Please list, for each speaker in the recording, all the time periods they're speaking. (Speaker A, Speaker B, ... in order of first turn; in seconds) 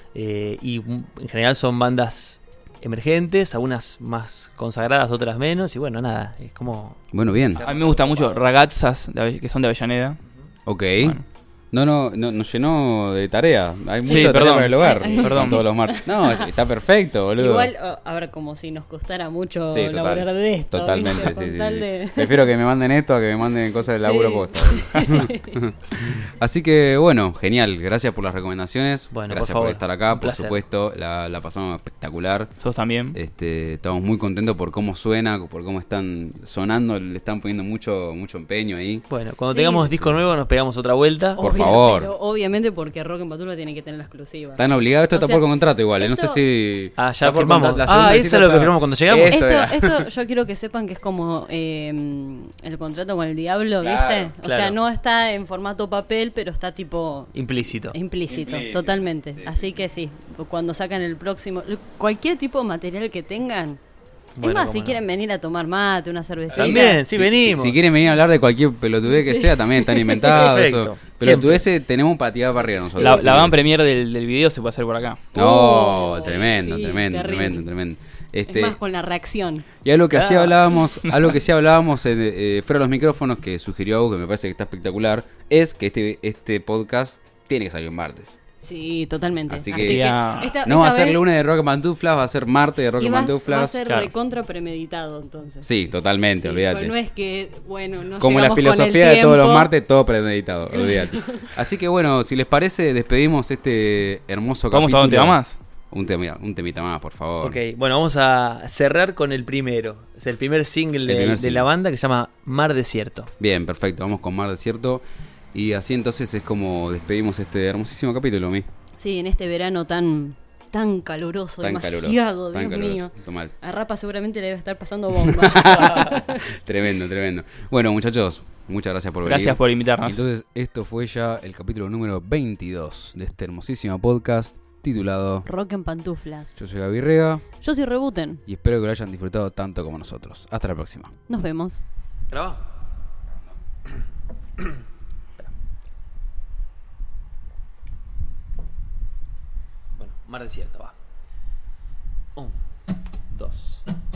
Speaker A: 0.1-8.5, 29.1-30.6, 39.1-41.7, 47.0-49.4, 54.4-54.8, 57.3-58.0, 64.3-65.0, 66.5-67.9, 70.2-71.6, 73.1-73.4, 80.1-80.5, 107.4-113.3, 142.3-142.6, 149.9-150.9, 153.3-153.8
Speaker B: 7.1-7.6, 10.7-11.2, 11.7-17.7, 19.7-32.5, 33.1-39.0, 41.4-42.1, 44.6-50.1, 53.8-54.3, 58.2-59.6, 66.5-73.6, 75.3-78.8, 79.8-88.3, 89.5-93.8, 95.6-96.9, 98.2-107.6, 111.0-111.7, 113.4-118.7, 121.6-123.5, 125.2-135.4, 136.6-137.4, 138.5-141.1
Speaker C: 7.5-10.2, 14.0-15.6, 32.6-33.2, 73.0-75.3, 80.9-81.3, 89.7-90.5, 104.7-105.5, 129.2-130.2
Speaker D: 14.0-16.5, 17.4-22.4, 24.0-25.6, 39.5-39.9, 41.4-45.4, 46.0-46.4, 49.2-57.3, 57.9-63.8, 64.4-67.0, 69.0-70.4, 75.3-77.7, 78.5-79.7, 88.6-91.2, 93.0-95.7, 96.3-99.7, 100.7-101.5, 119.0-126.5, 135.4-136.6, 137.6-138.4, 141.3-141.8